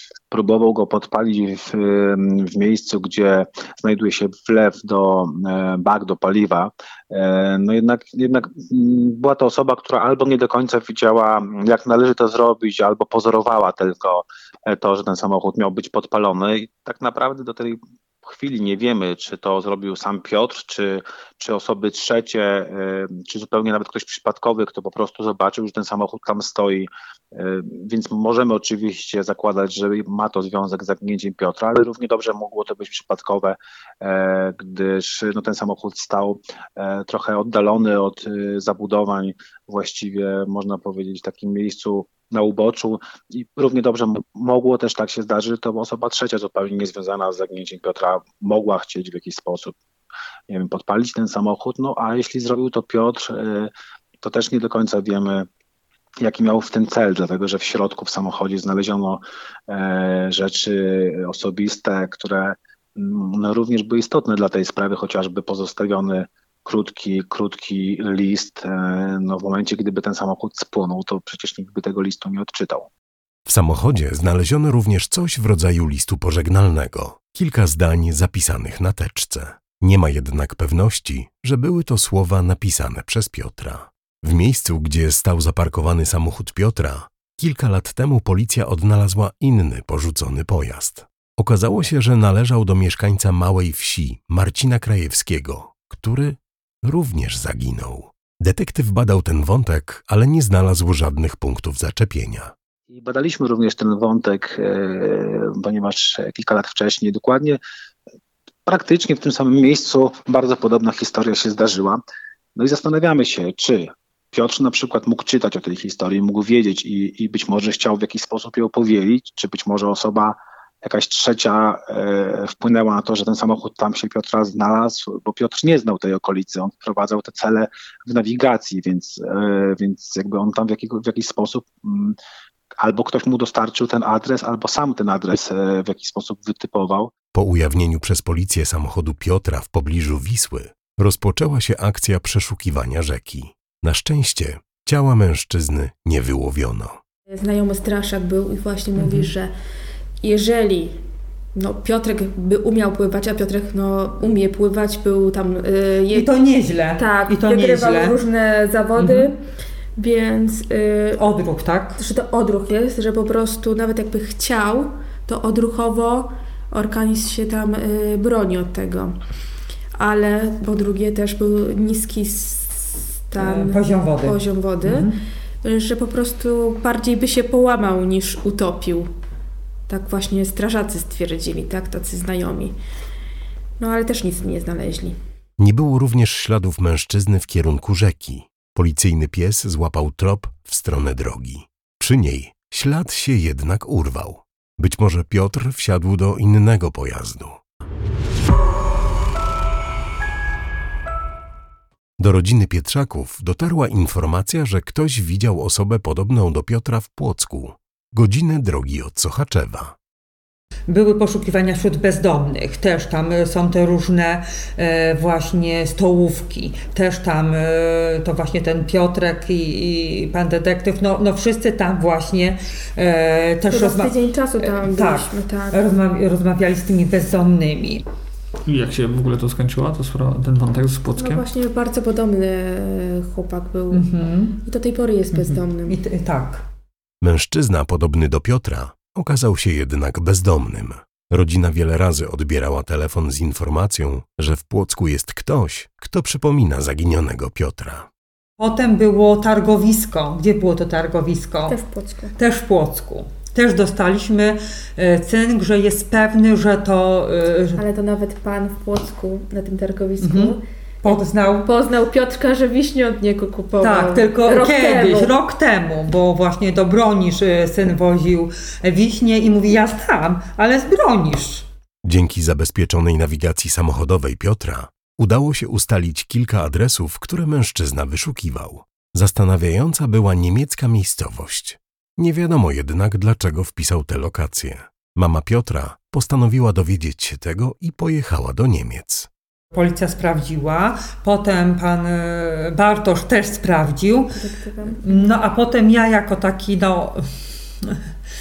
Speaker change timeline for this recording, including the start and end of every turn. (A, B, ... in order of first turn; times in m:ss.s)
0:00.3-0:49.8 A
0:50.5-0:55.5 A
0:56.2-1:12.9 A
1:13.4-1:42.5 B
1:42.9-1:47.6 A
1:48.6-1:52.0 A
1:52.5-2:12.2 A
2:12.8-2:17.2 A
2:17.3-2:27.0 B
2:27.3-2:29.5 C
2:29.0-2:29.3 D
2:30.2-2:31.0 C
2:31.5-2:36.3 C
2:36.1-2:38.2 D
2:37.0-2:39.4 C
2:39.0-2:39.3 D
2:40.0-2:41.2 C
2:41.2-2:42.0 D
2:42.0-2:49.1 C
2:50.0-2:55.1 C
2:53.4-2:55.2 D
2:55.6-2:59.1 C
2:59.9-3:02.7 C
3:03.8-3:05.2 C
3:05.6-3:17.6 B
3:22.2-3:30.0 B
3:30.9-3:48.0 D
3:43.7-3:45.8 C
3:48.6-3:51.4 E
3:51.2-3:54.1 C
3:53.9-3:54.6 D
3:54.6-3:56.0 C
3:55.3-3:56.6 D
3:57.2-4:08.1 B
4:08.6-4:11.8 D
4:11.7-4:12.3 C
4:12.4-4:17.8 D
4:17.8-4:25.3 C
4:20.2-4:21.7 D
4:23.8-4:31.6 D
4:32.0-4:49.3 B
4:49.7-4:54.4 D
4:54.4-4:55.2 C
4:55.0-4:57.2 D